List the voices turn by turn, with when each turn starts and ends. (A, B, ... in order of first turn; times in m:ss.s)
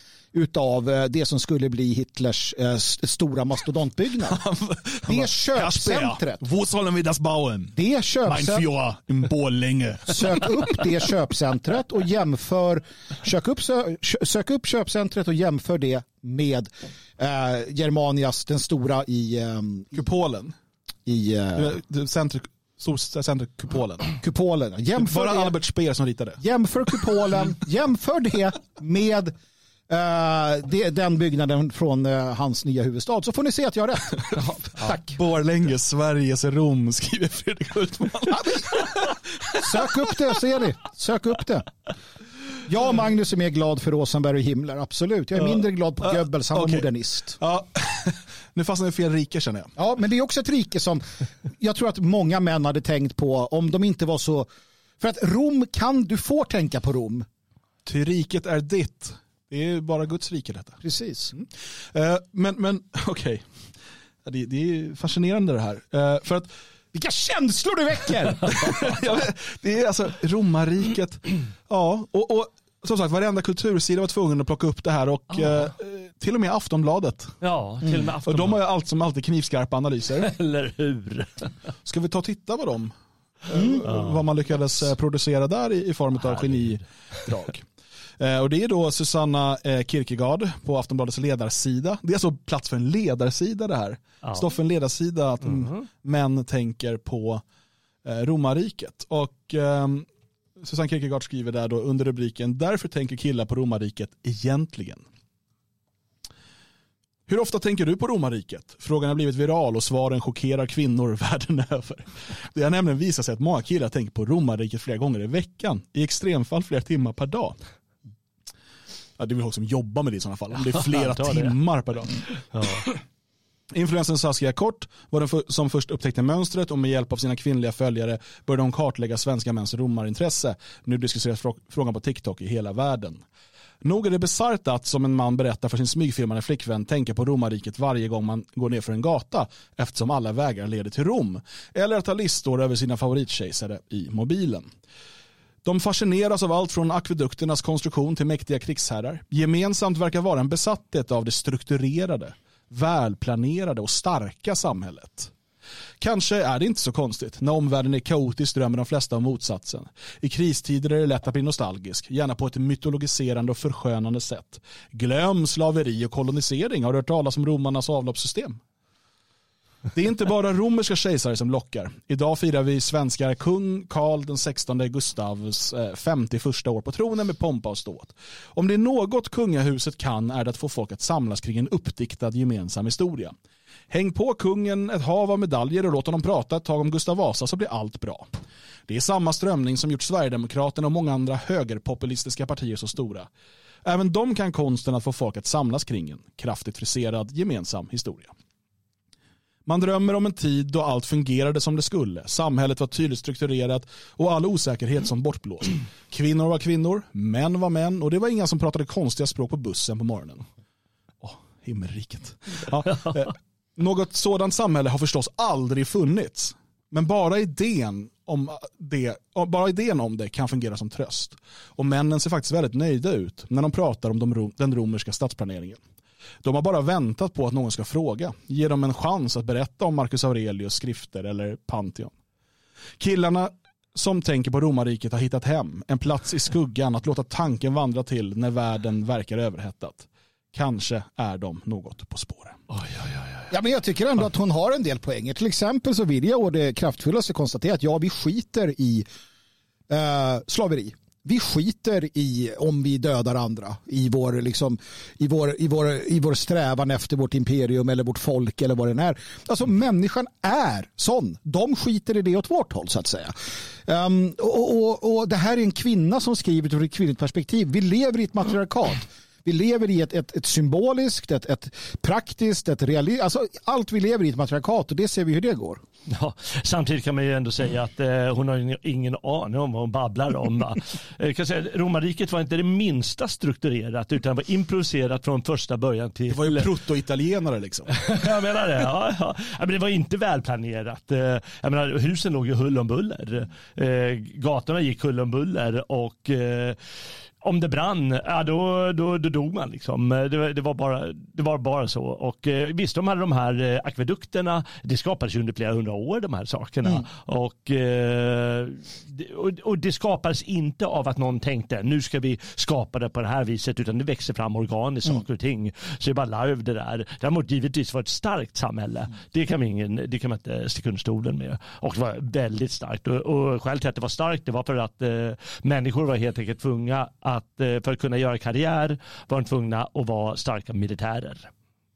0:00.3-0:04.4 A
0:04.2-0:10.8 B
0:05.1-0:06.4 A
0:07.7-0:08.6 A
0:10.1-0:20.0 A
0:19.9-0:20.6 B
0:21.1-0:21.8 A
0:21.6-0:24.2 B
0:24.2-0:25.6 A
0:25.0-0:26.4 B
0:26.4-0:29.3 A
0:29.9-0:35.2 A
0:34.8-0:39.2 B
0:38.3-0:38.8 A
0:39.6-0:41.7 A
0:42.7-0:47.4 A
0:45.4-0:46.9 B
0:47.4-0:49.7 B
0:49.8-0:57.3 A
0:57.8-1:00.8 B
1:00.8-1:01.3 A
1:01.3-1:03.4 B
1:04.2-1:06.5 B
1:06.9-1:09.2 A
1:08.5-1:17.3 B
1:17.4-1:18.6 C
1:18.3-1:20.3 B
1:20.2-1:21.5 C
1:21.8-1:22.9 B
1:23.4-1:27.7 B
1:23.5-1:23.8 A
1:23.8-1:24.2 C
1:26.2-1:26.8 C
1:28.2-1:37.4 B
1:38.0-1:40.1 B
1:40.6-1:45.0 B
1:47.3-1:57.6 B
1:59.2-2:02.2 B
2:00.6-2:01.5 C
2:02.5-2:02.8 C
2:03.7-2:13.2 B
2:13.8-2:24.7 B
2:25.6-2:35.3 B
2:36.0-2:48.6 B
2:49.9-3:03.3 B
3:03.9-3:08.3 B
3:08.9-3:13.3 B
3:13.8-3:18.3 B
3:19.7-3:30.4 B
3:31.2-3:45.8 B
3:46.4-3:52.1 B
3:53.0-4:02.6 B
4:02.7-4:03.5 C
4:03.5-4:09.1 A
4:09.9-4:35.8 A
4:36.1-4:46.7 C
4:46.3-4:47.9 B
4:48.0-4:56.8 C
4:57.4-5:31.5 C